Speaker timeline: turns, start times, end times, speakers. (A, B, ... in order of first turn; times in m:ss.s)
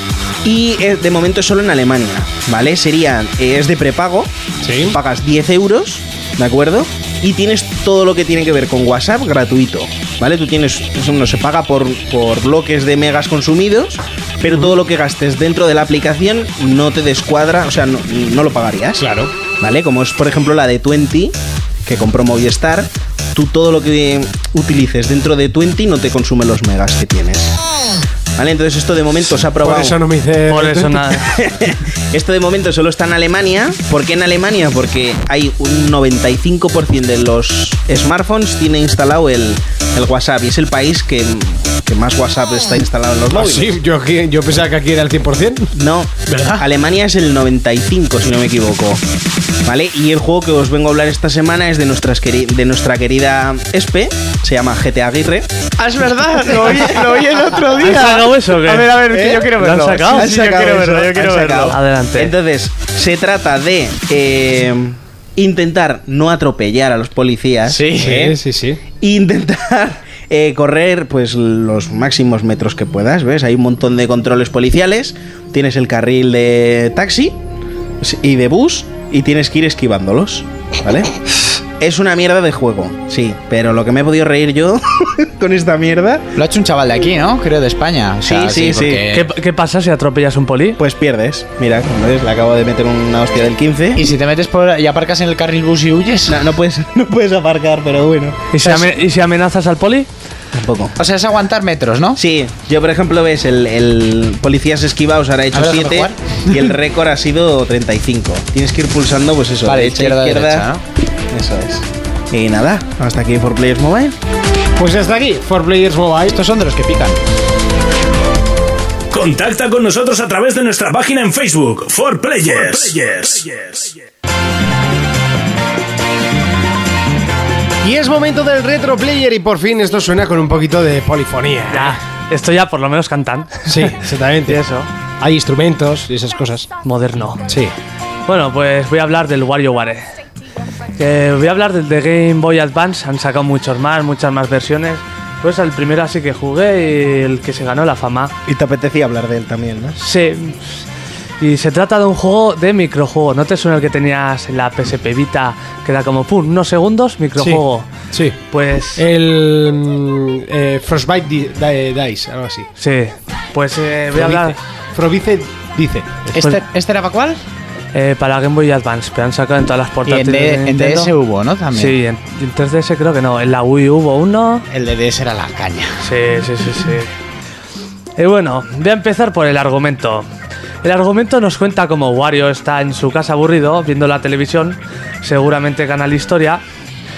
0:00.4-0:19.0 A
0:04.6-0:05.0 B
0:14.5-0:14.7 B
0:19.0-0:19.3 B
0:19.6-0:27.5 A
0:28.4-0:30.0 A
0:29.6-0:31.2 B
0:30.5-0:31.2 C
0:31.2-0:43.7 A
0:43.3-0:45.7 B
0:45.7-0:49.0 A
0:46.2-0:46.6 B
0:49.6-0:55.5 A
0:55.8-1:01.8 D
0:56.5-0:57.0 A
0:57.8-1:00.4 C
1:00.1-1:08.4 A
1:01.7-1:02.3 C
1:07.7-1:08.3 D
1:08.0-1:08.8 B
1:09.0-1:17.4 A
1:18.0-1:21.2 A
1:21.8-1:26.3 A
1:26.4-1:29.3 D
1:28.2-1:29.0 A
1:29.1-1:30.8 C
1:30.8-1:34.0 A
1:33.9-1:36.4 D
1:36.3-1:38.4 A
1:38.5-1:40.1 C
1:38.6-1:38.9 D
1:40.5-1:40.9 A
1:41.0-1:42.2 D
1:42.2-1:50.7 A
1:45.5-1:46.7 D
1:49.6-1:50.8 D
1:51.3-1:54.2 A
1:54.8-1:56.4 B
1:56.3-1:57.2 D
1:59.1-2:03.9 E
2:07.8-2:12.0 B
2:11.7-2:13.9 C
2:13.7-2:14.6 B
2:14.4-2:14.9 C
2:15.2-2:16.7 B
2:16.8-2:17.4 C
2:17.5-2:17.7 B
2:18.2-2:20.0 C
2:21.0-2:28.3 C
2:28.4-2:30.0 A
2:30.0-2:30.8 C
2:31.4-2:37.9 C
2:37.4-2:38.4 B
2:38.5-2:39.0 C
2:39.0-2:42.7 B
2:42.8-2:44.6 C
2:44.1-2:46.4 B
2:46.3-2:47.4 D
2:47.9-2:51.1 C
2:50.1-2:52.0 D
2:51.7-2:54.6 C
2:54.7-2:56.1 D
2:56.0-2:57.1 C
2:58.2-3:00.2 C
3:00.8-3:06.6 C